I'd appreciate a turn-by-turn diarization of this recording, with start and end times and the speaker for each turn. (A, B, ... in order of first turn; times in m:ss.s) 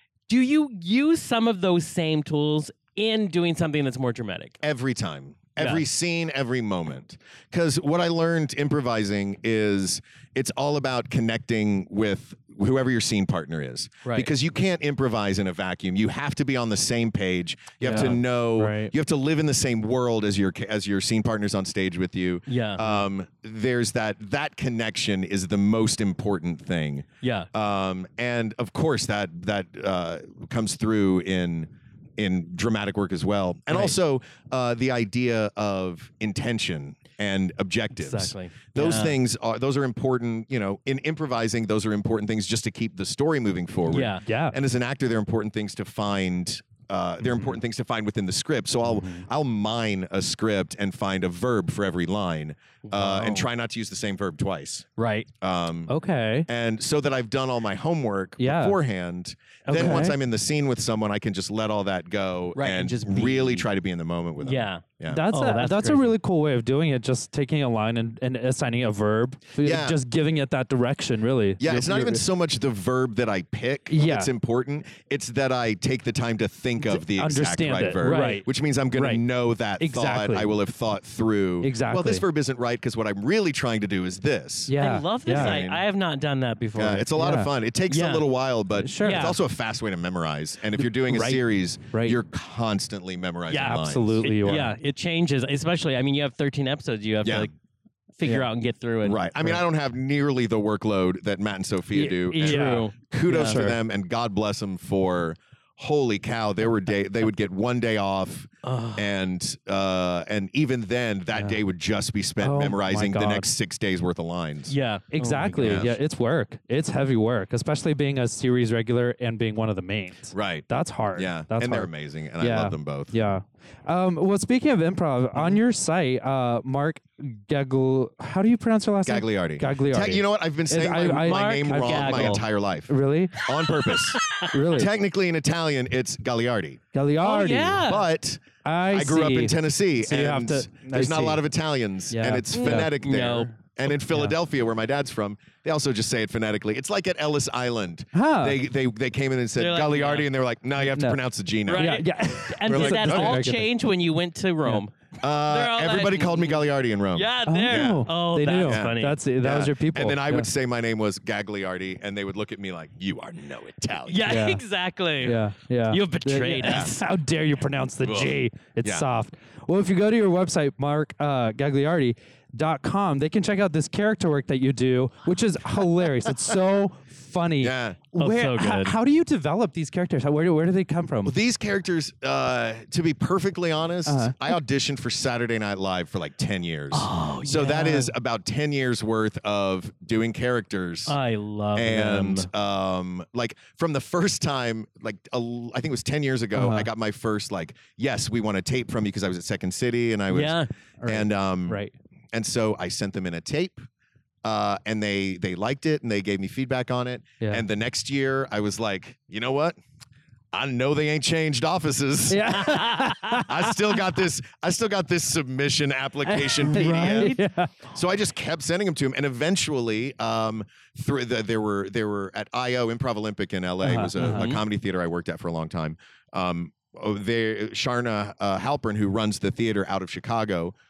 0:00.3-0:04.6 A
0:04.6-0:54.9 B
0:05.6-0:05.8 A
0:14.0-0:14.3 A
0:17.8-0:18.9 C
0:17.8-0:18.2 A
0:22.5-0:22.8 A
0:27.2-0:27.5 A
0:38.0-0:39.2 A
0:43.9-0:44.2 A
0:44.2-0:44.6 C
0:48.9-0:49.2 C
0:52.8-0:53.5 A
0:55.0-0:55.3 A
0:55.4-0:55.9 B
0:55.9-0:56.5 C
0:56.5-1:05.2 B
0:58.4-0:58.8 C
0:59.7-1:00.2 C
1:02.6-1:03.7 A
1:04.4-1:06.1 A
1:05.1-1:12.2 C
1:09.6-1:10.0 B
1:11.6-1:24.8 B
1:13.9-1:14.3 C
1:16.9-1:19.2 C
1:18.0-1:18.4 A
1:19.8-1:20.5 C
1:21.6-1:22.2 C
1:24.7-1:25.6 C
1:24.8-1:27.1 A
1:25.3-1:25.8 B
1:26.8-1:34.7 B
1:27.2-1:27.5 C
1:27.9-1:28.3 A
1:28.8-1:29.4 C
1:29.0-1:29.4 A
1:30.9-1:32.2 C
1:33.5-1:37.5 A
1:33.5-1:34.7 C
1:37.2-1:37.5 B
1:38.2-1:39.2 A
1:39.0-1:54.7 B
1:41.9-1:43.8 C
1:42.4-1:43.6 A
1:48.6-1:49.1 A
1:52.4-1:53.5 C
1:54.7-1:55.9 A
1:55.1-2:01.9 C
1:55.6-1:56.0 B
2:00.3-2:03.2 B
2:02.4-2:13.5 C
2:09.1-2:16.8 B
2:11.2-2:12.4 A
2:14.2-2:14.5 A
2:14.5-2:14.9 C
2:16.9-2:17.8 C
2:17.2-2:18.0 A
2:17.8-2:32.1 B
2:18.6-2:21.4 C
2:22.1-2:22.9 C
2:22.5-2:23.5 A
2:24.1-2:24.4 C
2:28.1-2:28.6 C
2:29.6-2:30.3 A
2:30.8-2:31.2 C
2:31.7-2:39.2 A
2:31.7-2:33.7 C
2:32.7-2:33.4 B
2:35.2-2:38.1 B
2:37.5-2:40.5 C
2:38.6-2:44.4 B
2:44.1-2:47.0 A
2:44.3-2:44.6 C
2:45.2-3:01.4 C
2:46.6-2:46.9 B
2:48.0-2:49.1 B
2:57.6-2:58.0 B
2:58.2-2:59.0 A
3:01.2-3:11.2 B
3:04.1-3:04.4 C
3:06.9-3:08.1 A
3:11.1-3:12.5 A
3:11.8-3:23.8 B
3:16.5-3:16.9 C
3:20.3-3:20.7 A
3:21.0-3:21.9 C
3:24.4-3:29.8 B
3:30.5-3:50.8 B
3:32.3-3:34.0 C
3:36.3-3:37.7 C
3:36.7-3:37.4 A
3:43.8-3:44.4 C
3:44.2-3:44.6 A